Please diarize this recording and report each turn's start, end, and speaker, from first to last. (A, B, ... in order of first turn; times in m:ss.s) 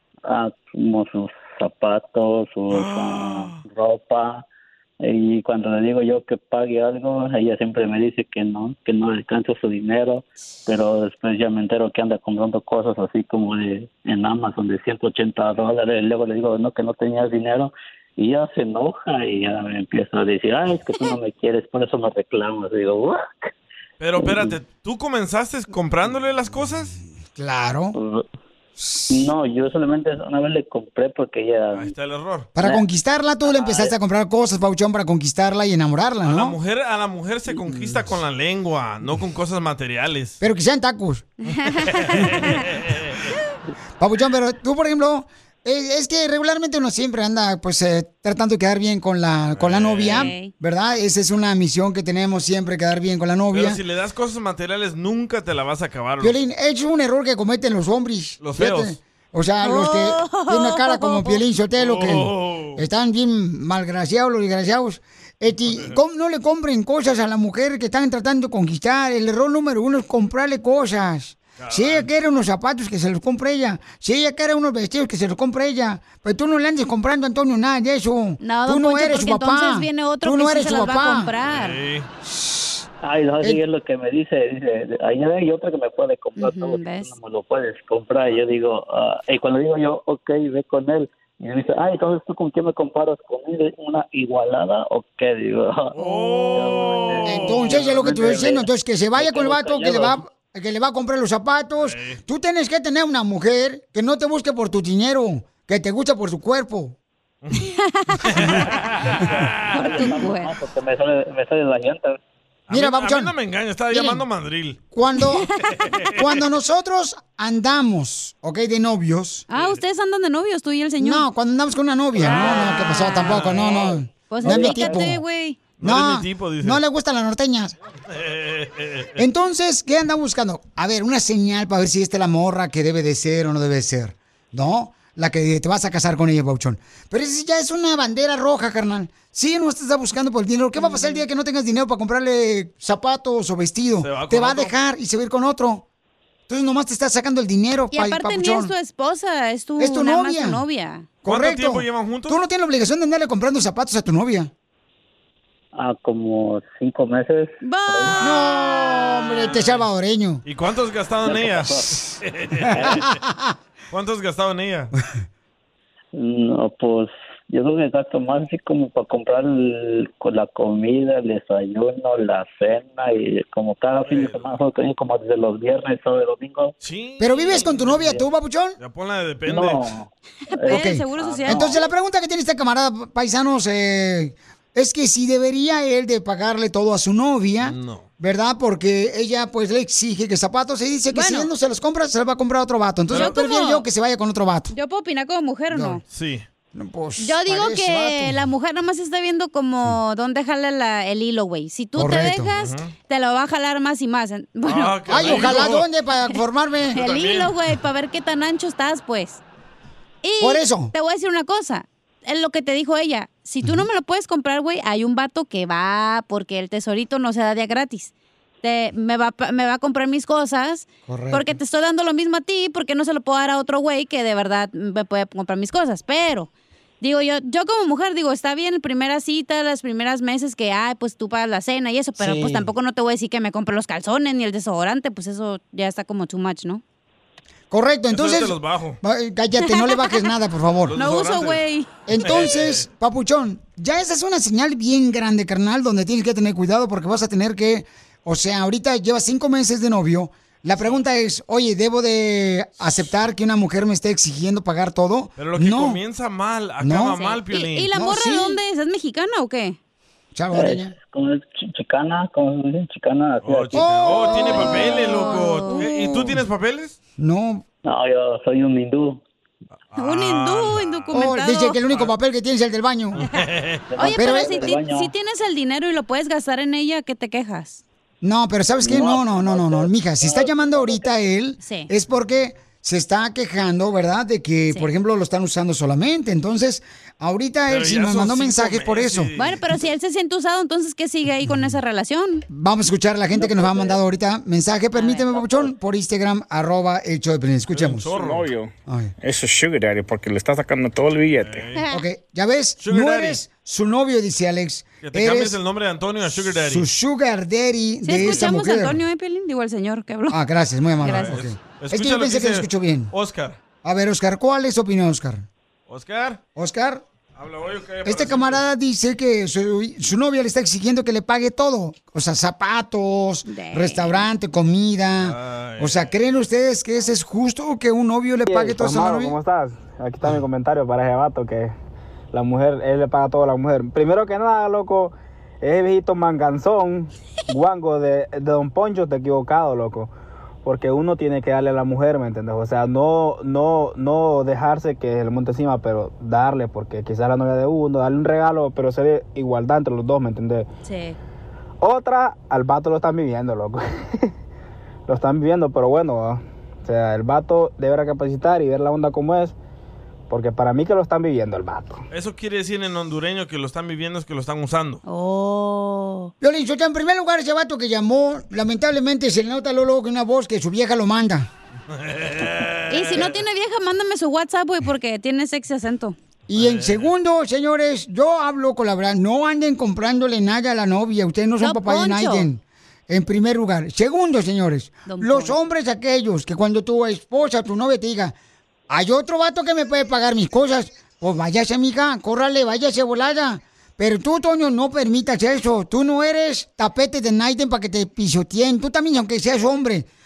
0:00.2-0:04.4 A
0:02.8-0:03.6 B
0:05.0-0:23.5 A
0:24.0-0:26.9 B
0:24.2-0:24.5 A
0:27.4-0:27.9 C
0:27.9-0:28.2 A
0:28.8-0:29.2 C
0:29.1-0:31.9 A
0:31.7-0:32.5 B
0:32.6-0:36.6 C
0:32.6-0:32.8 A
0:33.4-0:34.0 A
0:36.2-0:40.4 B
0:40.4-0:41.3 C
0:41.5-0:42.5 D
0:42.1-0:43.2 B
0:44.0-0:53.8 C
0:49.5-0:50.3 B
0:50.1-0:50.5 D
0:53.5-0:56.4 B
0:56.2-1:21.3 C
0:58.4-0:59.0 B
0:59.6-1:01.4 D
1:01.8-1:02.8 B
1:05.7-1:05.9 B
1:11.6-1:12.1 B
1:18.4-1:21.8 D
1:21.4-1:22.1 B
1:22.3-1:22.7 C
1:23.0-1:40.2 A
1:26.4-1:27.1 D
1:35.9-1:37.8 B
1:36.2-1:36.8 D
1:37.3-1:47.0 C
1:41.8-1:42.2 B
1:47.6-1:48.5 D
1:48.3-1:49.6 B
1:49.2-1:52.2 A
1:49.7-1:50.5 D
1:52.7-1:54.8 B
1:52.7-1:53.3 C
1:53.9-1:54.2 C
1:54.9-1:55.5 C
1:55.8-1:56.1 B
1:56.1-1:59.4 C
1:59.5-2:01.2 D
2:01.0-2:05.2 C
2:02.2-2:05.6 D
2:02.2-2:03.9 B
2:04.4-2:05.0 A
2:05.8-2:06.8 B
2:05.8-2:07.8 C
2:08.1-2:09.2 B
2:09.2-2:25.8 C
2:20.8-2:21.2 D
2:24.0-2:24.7 B
2:26.5-2:28.7 C
2:27.9-2:31.1 D
2:29.8-2:30.6 C
2:31.2-2:34.5 C
2:31.2-2:32.4 B
2:35.7-2:38.2 A
2:37.6-2:38.2 D
2:38.2-2:40.4 C
2:39.5-2:39.8 B
2:40.4-2:43.2 B
2:41.2-2:42.1 A
2:42.7-2:43.0 A
2:43.1-2:43.4 C
2:43.9-2:44.9 B
2:46.1-2:56.7 A
2:54.0-2:54.4 B
2:56.8-2:58.0 B
2:57.2-2:58.8 C
2:57.9-2:58.2 A
2:58.8-2:59.8 B
2:59.4-3:01.8 A
3:00.5-3:01.8 D
3:00.7-3:14.7 C
3:07.6-3:08.1 B
3:11.1-3:11.5 D
3:13.1-3:13.4 B
3:13.1-3:13.8 D
3:14.7-3:16.0 D
3:15.7-3:16.0 C
3:16.1-3:16.4 B
3:16.7-3:18.4 C
3:17.2-3:25.7 D
3:22.0-3:22.5 C
3:22.6-3:22.9 B
3:24.6-3:25.8 B
3:25.1-3:27.0 C
3:26.9-3:27.5 B
3:26.9-3:29.4 D
3:30.2-3:38.1 D
3:30.4-3:30.9 C
3:38.6-3:46.5 D
3:41.0-3:41.5 C
3:47.0-3:56.8 D
3:52.2-3:52.6 C
3:57.7-4:01.0 C
3:58.1-3:59.0 B
3:59.7-4:00.2 D
4:00.9-4:01.6 B
4:01.0-4:01.9 D
4:02.1-4:16.0 C
4:02.2-4:02.8 B
4:15.4-4:17.9 B
4:16.8-4:17.2 C
4:17.1-4:19.8 D
4:17.9-4:18.6 C
4:20.3-4:20.9 C
4:20.5-4:24.8 A
4:23.4-4:27.0 B
4:23.8-4:26.4 C
4:24.3-4:25.8 D
4:27.2-4:27.6 C
4:27.8-4:29.2 A
4:29.9-4:31.1 B
4:30.0-4:31.8 D
4:31.1-4:33.2 C
4:33.2-4:33.8 B
4:33.9-4:35.1 A
4:34.0-4:37.8 D
4:34.2-4:34.6 C
4:38.2-4:49.3 C
4:38.8-4:41.2 A
4:41.6-4:41.9 D
4:47.7-4:49.6 B
4:49.4-4:52.4 D
4:52.5-4:58.1 C
4:54.9-4:55.4 D
4:57.7-4:58.5 B
4:58.2-4:58.7 E
4:58.8-4:59.1 C
4:59.2-5:01.6 E
5:01.4-5:01.8 B
5:01.9-5:05.6 C
5:02.8-5:03.4 B
5:05.0-5:06.9 B
5:06.3-5:09.0 C
5:08.0-5:10.4 D
5:08.2-5:08.4 B
5:10.3-5:13.1 C
5:11.0-5:11.3 D
5:11.0-5:13.6 B
5:13.8-5:15.4 C
5:15.9-5:16.4 B
5:16.6-5:17.0 C
5:17.4-5:18.6 B
5:18.0-5:29.4 C
5:23.4-5:24.2 D
5:25.2-5:26.1 B
5:28.5-5:31.7 F
5:32.3-5:40.1 F
5:40.6-5:50.7 F
5:50.8-5:51.2 D
5:51.8-5:54.3 F
5:55.1-5:59.5 F
6:00.3-6:02.0 F
6:02.1-6:05.0 B
6:05.0-6:06.3 D
6:06.4-6:11.5 C
6:11.9-6:13.3 B
6:12.9-6:16.2 D
6:16.5-6:28.3 C
6:16.5-6:17.1 B
6:21.6-6:22.5 D
6:25.0-6:25.6 D
6:28.9-6:40.1 C